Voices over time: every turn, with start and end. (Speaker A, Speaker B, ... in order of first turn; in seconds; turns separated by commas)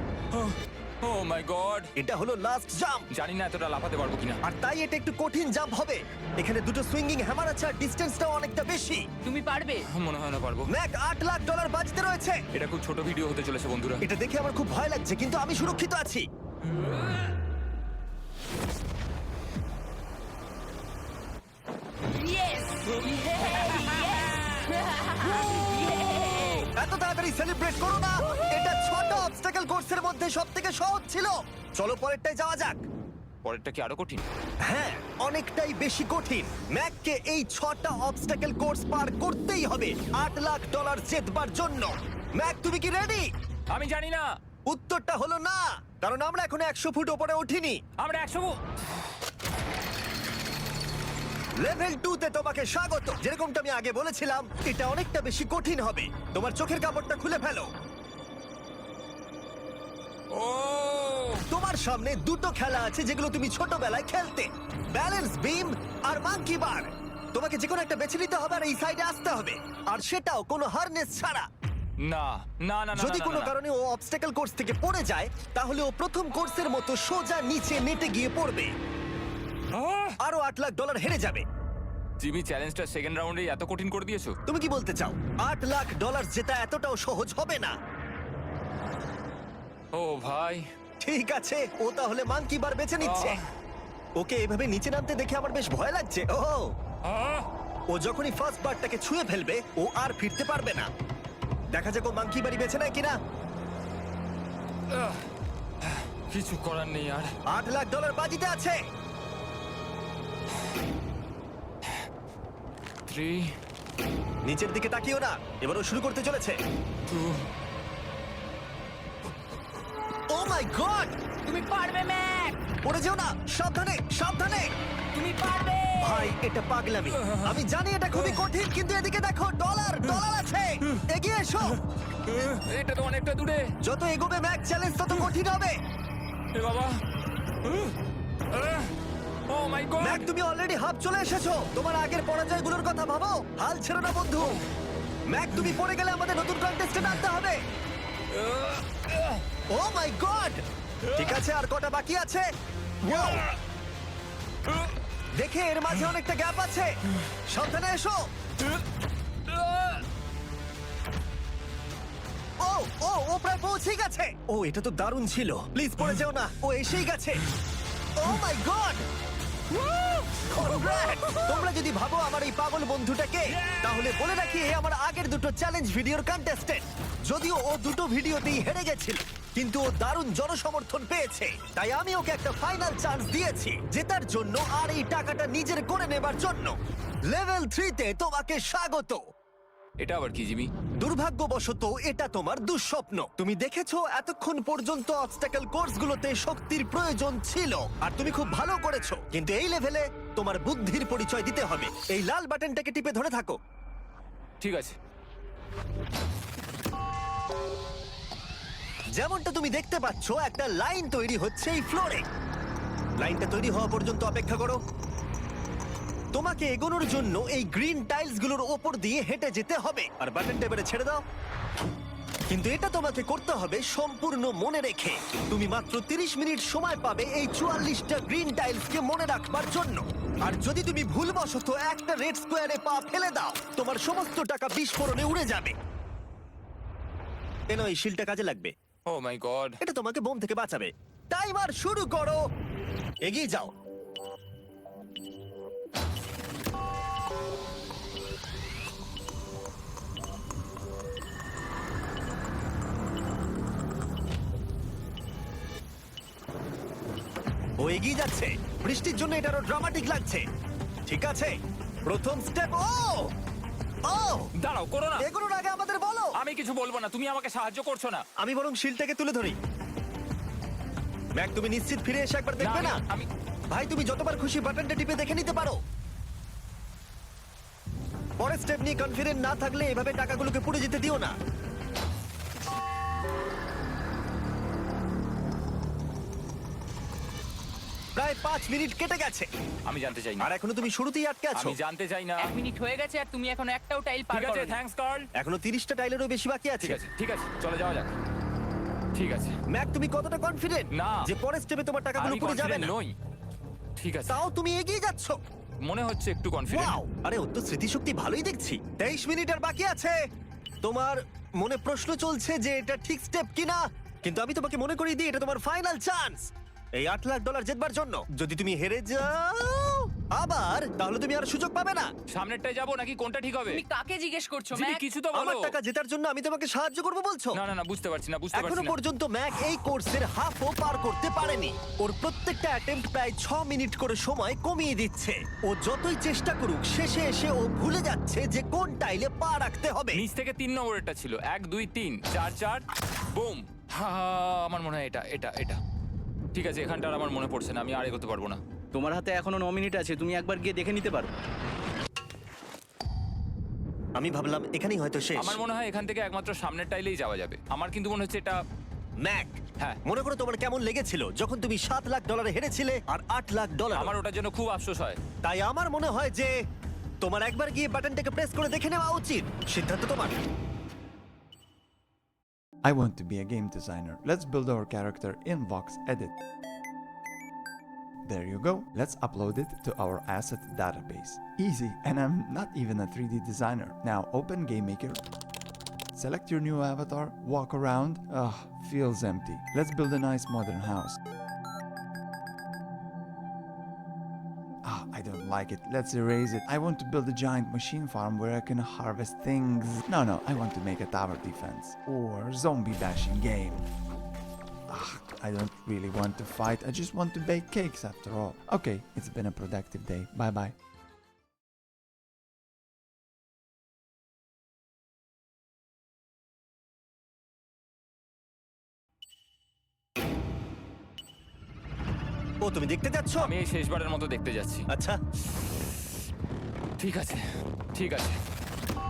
Speaker A: 0.3-1.9, Speaker B: 2.0-3.1, Speaker A: 3.1-4.4, Speaker B: 4.4-9.0, Speaker C: 9.2-9.8, Speaker A: 9.9-10.7, Speaker B: 10.7-12.4, Speaker A: 12.5-14.0, Speaker B: 14.0-16.3, Speaker C: 22.1-26.7, Speaker A: 23.6-24.5, Speaker B: 26.7-32.8, Speaker A: 33.4-34.2, Speaker B: 34.6-43.3, Speaker A: 43.7-44.3, Speaker B: 44.7-47.8, Speaker A: 48.0-48.5, Speaker B: 51.6-57.7, Speaker A: 60.3-61.4, Speaker B: 61.5-71.5, Speaker A: 72.0-73.5, Speaker B: 73.0-78.7, Speaker A: 79.7-80.2, Speaker B: 80.2-81.4, Speaker A: 82.2-84.3, Speaker B: 84.5-87.8, Speaker A: 89.9-90.6, Speaker B: 91.0-93.4, Speaker A: 93.0-93.5, Speaker B: 94.2-96.7, Speaker A: 97.0-97.5, Speaker B: 97.9-100.9, Speaker B: 101.7-103.2, Speaker A: 104.9-105.3, Speaker A: 105.8-107.3, Speaker B: 107.5-108.8, Speaker A: 113.1-113.5, Speaker B: 114.5-116.6, Speaker A: 117.1-117.4, Speaker B: 120.3-121.2, Speaker C: 121.4-122.6, Speaker B: 122.8-124.7, Speaker C: 125.1-126.3, Speaker B: 126.0-131.8, Speaker A: 127.2-127.6, Speaker A: 128.1-128.4, Speaker A: 132.2-133.6, Speaker B: 133.8-135.8, Speaker A: 136.5-136.9, Speaker A: 137.6-137.9, Speaker A: 138.5-138.9, Speaker A: 139.5-140.3, Speaker B: 140.0-144.6, Speaker B: 145.3-147.6, Speaker A: 148.3-149.4, Speaker B: 149.7-150.6, Speaker A: 151.1-151.4, Speaker B: 151.2-152.5, Speaker B: 153.0-153.4, Speaker A: 153.1-153.5, Speaker B: 155.4-156.9, Speaker B: 157.5-158.2, Speaker A: 159.5-160.0, Speaker B: 162.6-167.4, Speaker B: 168.2-169.0, Speaker A: 169.7-171.5, Speaker B: 170.5-186.8, Speaker A: 173.5-174.1, Speaker B: 187.3-189.2, Speaker A: 190.0-190.7, Speaker B: 191.0-203.6, Speaker A: 204.6-204.9, Speaker B: 209.2-212.2, Speaker B: 213.2-214.8, Speaker B: 216.3-221.2, Speaker B: 222.5-235.8, Speaker B: 237.7-238.7, Speaker A: 239.1-239.8, Speaker B: 239.8-242.4, Speaker B: 243.2-243.7, Speaker B: 257.8-260.4, Speaker B: 261.1-263.3, Speaker B: 264.1-264.5, Speaker A: 264.6-265.3, Speaker B: 265.2-266.4, Speaker A: 266.4-268.2, Speaker B: 268.4-269.6, Speaker B: 271.4-273.0, Speaker A: 272.6-273.3, Speaker B: 273.7-275.8, Speaker B: 278.4-281.3, Speaker B: 288.1-289.5, Speaker A: 289.9-290.5, Speaker B: 290.4-291.8, Speaker A: 291.5-292.5, Speaker C: 292.4-294.7, Speaker A: 294.3-295.3, Speaker B: 295.4-297.0, Speaker A: 296.8-298.1, Speaker A: 299.1-299.5, Speaker B: 299.7-302.9, Speaker A: 300.9-301.2, Speaker A: 302.2-303.1, Speaker A: 304.0-304.4, Speaker B: 304.3-305.4, Speaker A: 305.9-307.0, Speaker B: 306.7-310.2, Speaker B: 310.8-322.1, Speaker A: 322.3-323.8, Speaker C: 323.7-325.0, Speaker A: 324.7-325.7, Speaker B: 325.3-327.6, Speaker A: 327.5-328.9, Speaker B: 328.6-340.2, Speaker A: 340.1-342.8, Speaker A: 343.3-345.8, Speaker A: 346.5-348.6, Speaker D: 348.9-351.3, Speaker B: 354.2-355.6, Speaker A: 355.4-358.6, Speaker B: 359.2-364.1, Speaker A: 363.9-365.2, Speaker B: 365.4-366.5, Speaker B: 367.2-370.3, Speaker E: 372.8-376.4, Speaker E: 378.2-385.2, Speaker E: 386.1-391.2, Speaker E: 394.8-403.9, Speaker E: 404.9-410.8, Speaker B: 422.6-423.5, Speaker A: 423.4-424.9, Speaker B: 424.9-425.2, Speaker A: 427.0-427.4, Speaker A: 427.9-428.4